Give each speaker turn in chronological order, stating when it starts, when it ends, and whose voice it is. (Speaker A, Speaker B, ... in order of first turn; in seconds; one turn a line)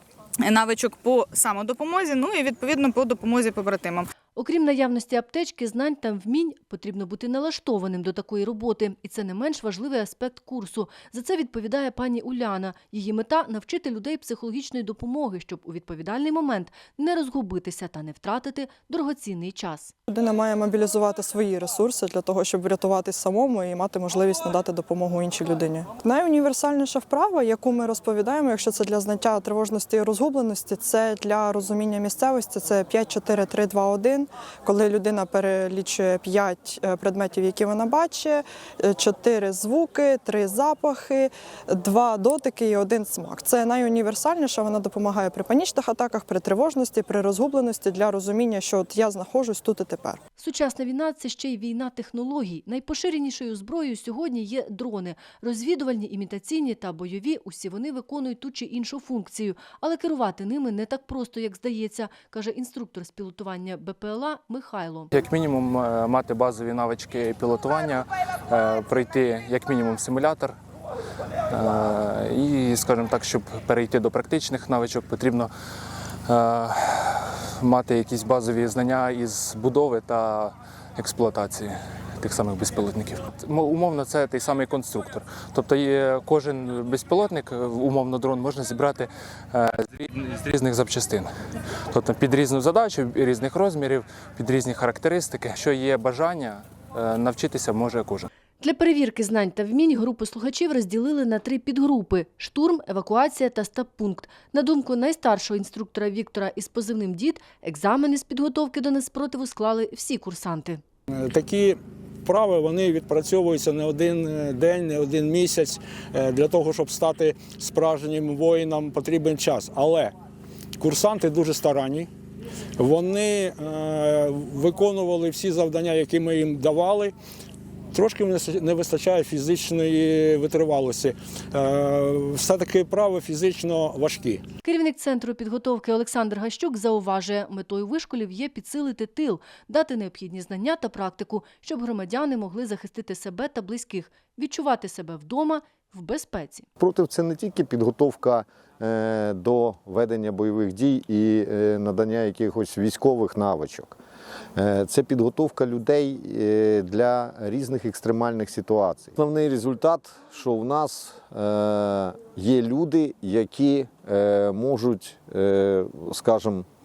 Speaker A: 0.5-4.1
Speaker B: 4.3-19.9
Speaker C: 20.1-50.2
Speaker B: 50.4-65.1
Speaker D: 65.1-70.5
Speaker D: 71.5-75.5
Speaker D: 76.3-91.3
Speaker D: 91.9-98.3
Speaker B: 98.6-110.8
Speaker E: 111.1-120.1
Speaker E: 120.8-122.1
Speaker E: 122.8-127.1
Speaker E: 127.9-134.4
Speaker B: 134.6-146.7
Speaker F: 146.8-153.9
Speaker F: 154.6-166.6